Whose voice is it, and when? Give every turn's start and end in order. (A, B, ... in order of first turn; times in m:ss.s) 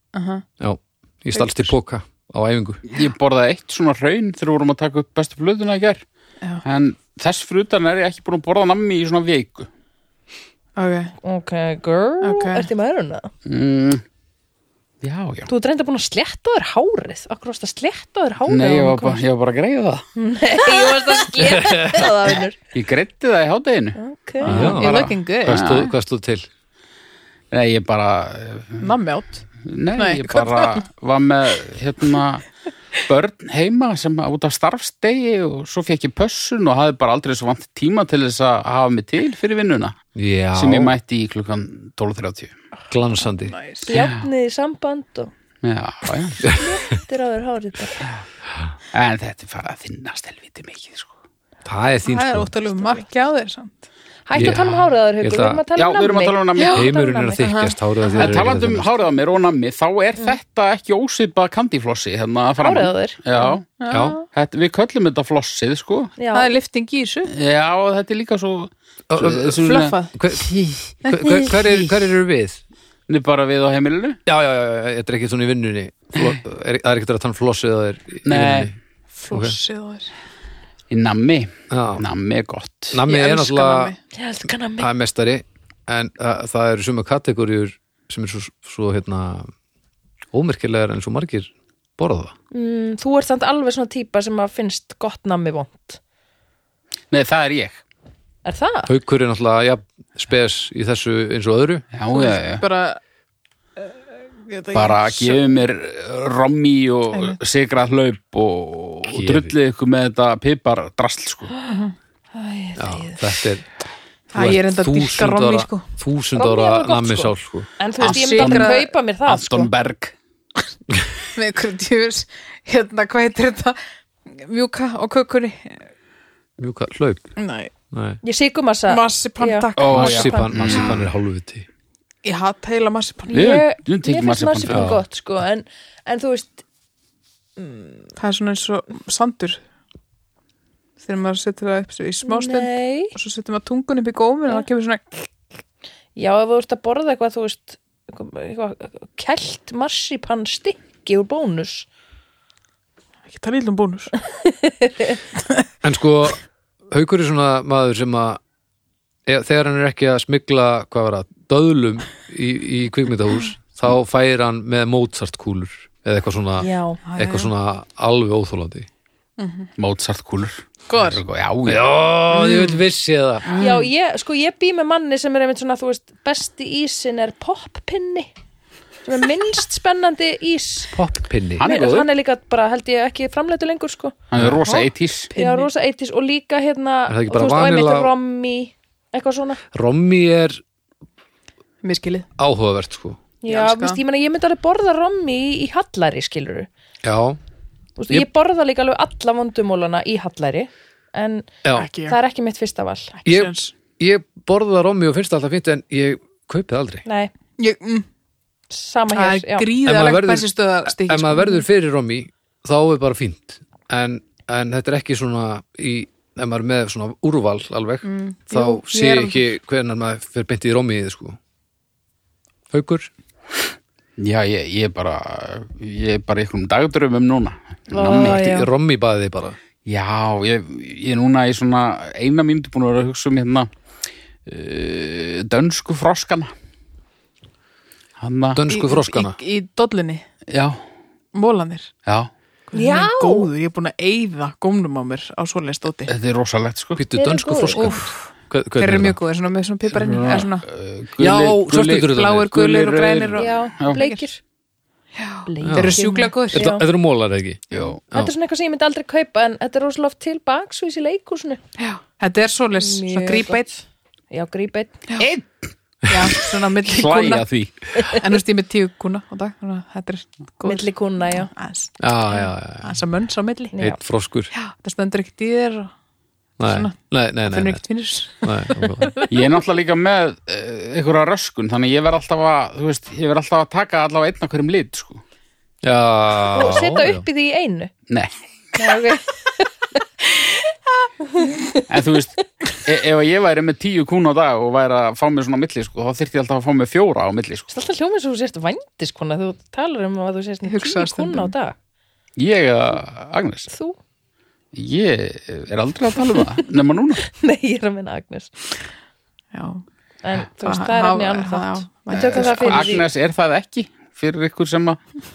0:00.1-0:00.4 A
0:00.6-0:02.8 B
0:01.4-0:01.7 A
0:02.9-0:06.0 C
0:06.6-0:09.7 C
0:10.8-0:11.1 A
0:11.2-0:13.3 D
0:12.2-0:12.7 A
0:13.5-0:14.0 C
0:15.0-0:15.5 C
0:15.5-0:19.2 D
0:18.5-0:20.1 C
0:20.2-0:22.6 D
0:21.4-0:22.1 B
0:22.7-0:25.9 C
0:24.0-0:24.8 D
0:24.5-0:25.9 A
0:24.5-0:26.5 B
0:27.5-0:28.9 C
0:28.8-0:30.8 A
0:29.6-0:32.4 C
0:33.0-0:40.0 C
0:40.2-0:40.9 B
0:40.6-0:42.5 C
0:42.9-0:43.6 B
0:43.4-0:43.9 A
0:43.9-0:45.3 D
0:43.9-0:44.2 C
0:45.6-0:46.5 C
0:46.5-0:48.1 D
0:48.9-0:51.1 C
0:51.6-0:52.5 B
0:52.0-0:53.9 A
0:54.3-0:57.5 D
0:54.4-0:55.6 B
0:54.4-0:54.8 C
0:55.8-0:56.9 C
0:56.6-0:56.9 A
0:56.7-0:58.9 B
0:57.4-0:58.4 A
0:58.1-1:03.8 C
1:02.6-1:03.2 D
1:03.4-1:04.2 A
1:03.9-1:04.2 B
1:04.3-1:06.1 C
1:06.2-1:06.5 D
1:06.3-1:07.3 A
1:07.3-1:10.0 C
1:09.1-1:12.6 B
1:09.6-1:10.2 A
1:11.0-1:11.9 A
1:13.1-1:14.2 C
1:14.3-1:18.8 B
1:18.3-1:18.7 C
1:19.2-1:20.1 A
1:19.3-1:19.6 B
1:20.9-1:23.0 C
1:21.7-1:22.0 B
1:22.9-1:23.9 B
1:23.1-1:24.0 A
1:24.1-1:24.9 D
1:24.8-1:29.5 B
1:30.3-1:32.3 B
1:32.5-1:36.0 D
1:37.1-1:37.8 C
1:38.4-1:38.9 D
1:38.9-1:41.8 B
1:41.9-1:42.6 C
1:42.1-1:43.0 A
1:43.8-1:45.6 A
1:44.7-1:51.5 C
1:47.1-1:47.4 A
1:49.1-1:49.5 B
1:51.6-1:51.8 D
1:52.3-1:53.3 D
1:52.8-1:53.6 B
1:54.3-1:55.9 A
1:54.3-1:57.7 B
1:56.4-1:59.7 D
1:58.0-2:00.2 C
1:58.0-1:58.9 A
2:01.3-2:03.8 A
2:04.3-2:05.9 A
2:06.6-2:07.3 B
2:07.4-2:07.7 A
2:07.9-2:08.2 B
2:08.2-2:10.8 D
2:08.9-2:10.3 A
2:09.8-2:11.1 C
2:09.9-2:11.7 B
2:12.2-2:13.5 A
2:13.3-2:16.6 D
2:13.3-2:14.9 C
2:14.7-2:15.0 B
2:17.6-2:18.0 D
2:18.2-2:19.6 A
2:21.0-2:25.3 A
2:22.2-2:23.2 D
2:26.2-2:31.9 D
2:33.3-2:34.1 A
2:34.4-2:35.2 D
2:35.8-2:38.4 B
2:39.3-2:48.9 B
2:46.6-2:47.0 D
2:47.0-2:47.5 A
2:49.4-2:49.7 A
2:49.8-2:51.9 C
2:50.9-2:51.2 A
2:51.7-2:53.6 B
2:52.3-2:52.8 A
2:53.5-2:53.8 A
2:53.6-2:58.3 D
2:59.1-3:00.9 D
3:00.9-3:01.7 B
3:01.6-3:02.1 C
3:01.6-3:04.2 D
3:04.3-3:05.3 C
3:04.4-3:04.6 B
3:04.6-3:05.7 A
3:05.4-3:09.6 D
3:07.1-3:08.1 B
3:09.7-3:10.6 B
3:11.8-3:12.3 A
3:12.4-3:13.2 B
3:13.4-3:16.7 D
3:13.5-3:14.0 A
3:17.0-3:17.4 B
3:18.0-3:23.2 D
3:21.6-3:21.9 B
3:21.7-3:22.2 A
3:23.2-3:23.7 A
3:23.2-3:27.0 B
3:27.0-3:27.3 D
3:27.6-3:28.1 A
3:28.7-3:29.7 D
3:29.1-3:31.6 A
3:29.8-3:41.4 B
3:38.0-3:39.5 A
3:42.7-3:43.1 B
3:44.2-3:48.4 C
3:47.9-3:48.7 D
3:48.1-3:49.6 B
3:49.9-3:53.7 C
3:54.5-3:56.5 C
3:58.2-3:58.6 C
3:58.5-3:59.4 B
3:58.7-4:00.2 A
4:00.5-4:00.8 C
4:01.3-4:01.9 A
4:02.7-4:06.1 A
4:02.7-4:03.5 D
4:06.1-4:07.0 C
4:07.0-4:09.2 B
4:07.1-4:08.0 D
4:07.8-4:10.7 A
4:10.0-4:10.5 B
4:10.3-4:14.0 C
4:11.2-4:12.5 B
4:12.0-4:14.2 A
4:13.4-4:14.4 D
4:15.2-4:16.7 A
4:15.5-4:16.9 D
4:15.6-4:18.3 B
4:17.7-4:18.0 C
4:18.1-4:21.6 D
4:21.8-4:23.8 A
4:22.8-4:23.6 D
4:24.3-4:25.0 D
4:25.2-4:25.6 C
4:26.1-4:27.5 A
4:26.3-4:28.2 C
4:28.1-4:33.8 A
4:30.6-4:31.5 D
4:32.0-4:33.0 B
4:33.7-4:34.0 D
4:33.8-4:34.5 B
4:34.5-4:35.9 A
4:36.6-4:37.8 B
4:36.6-4:36.9 A
4:37.5-4:39.3 A
4:38.4-4:39.2 B
4:39.3-4:45.2 C
4:45.8-4:47.2 B
4:46.5-4:47.9 D
4:48.8-4:49.7 D
4:51.3-4:51.9 D
4:51.9-4:57.7 C
4:57.7-5:01.8 D
5:00.6-5:01.5 A
5:02.4-5:03.7 C
5:03.7-5:04.0 D
5:04.7-5:07.2 C
5:07.3-5:08.5 D
5:09.5-5:09.8 A
5:10.2-5:13.1 D
5:10.6-5:13.0 A
5:12.2-5:15.0 C